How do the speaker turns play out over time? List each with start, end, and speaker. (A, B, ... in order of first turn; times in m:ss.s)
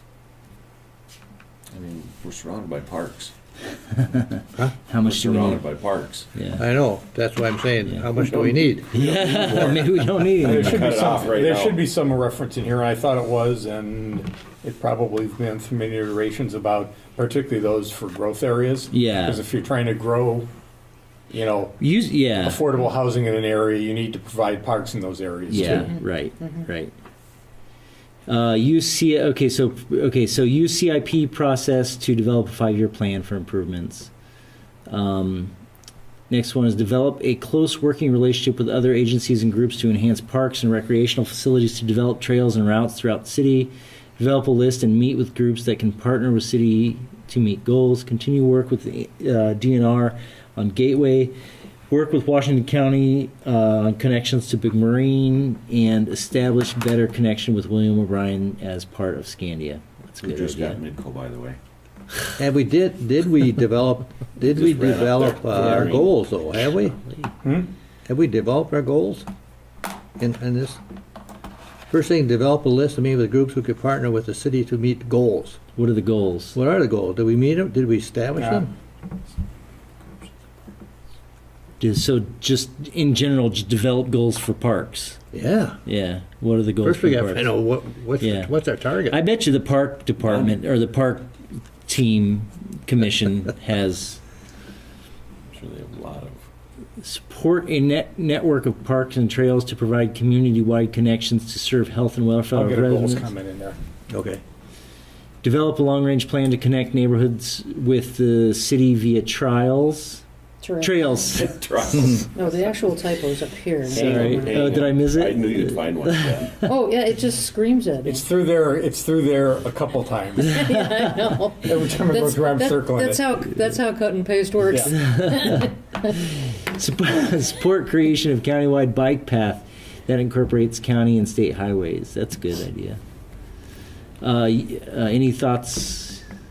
0:01.7-0:03.3 A
0:04.0-0:05.6 B
0:05.0-0:06.3 A
0:06.4-0:06.6 B
0:06.6-0:08.9 C
0:08.2-0:11.8 A
0:08.9-0:11.0 B
0:10.4-0:20.5 D
0:18.9-0:19.4 B
0:21.3-0:21.8 D
0:21.8-0:22.6 B
0:22.4-0:26.0 D
0:25.5-0:26.9 B
0:28.3-0:34.1 B
0:34.9-0:35.5 B
0:36.3-0:51.4 B
0:51.9-1:00.8 B
1:00.2-1:01.6 A
1:02.4-1:07.0 C
1:04.5-1:06.1 A
1:07.4-1:07.7 D
1:08.1-1:09.3 C
1:10.2-1:10.8 C
1:11.9-1:15.6 C
1:15.8-1:16.6 B
1:16.6-1:18.7 C
1:18.4-1:18.6 D
1:21.8-1:25.2 B
1:25.3-1:25.8 C
1:25.8-1:27.5 B
1:26.8-1:29.2 C
1:28.2-1:28.5 B
1:29.1-1:31.3 B
1:31.8-1:34.2 B
1:35.5-1:36.4 A
1:37.0-1:43.3 B
1:42.5-1:43.8 D
1:44.1-1:44.4 C
1:45.4-1:50.2 B
1:50.6-1:51.0 E
1:50.8-1:52.0 B
1:51.2-1:53.1 A
1:52.4-1:54.6 E
1:53.8-1:56.7 A
1:53.9-1:56.1 B
1:56.6-1:58.2 E
1:58.0-2:00.6 D
2:00.5-2:05.7 E
2:01.6-2:03.3 D
2:04.7-2:04.9 D
2:04.8-2:13.0 B
2:14.2-2:16.2 B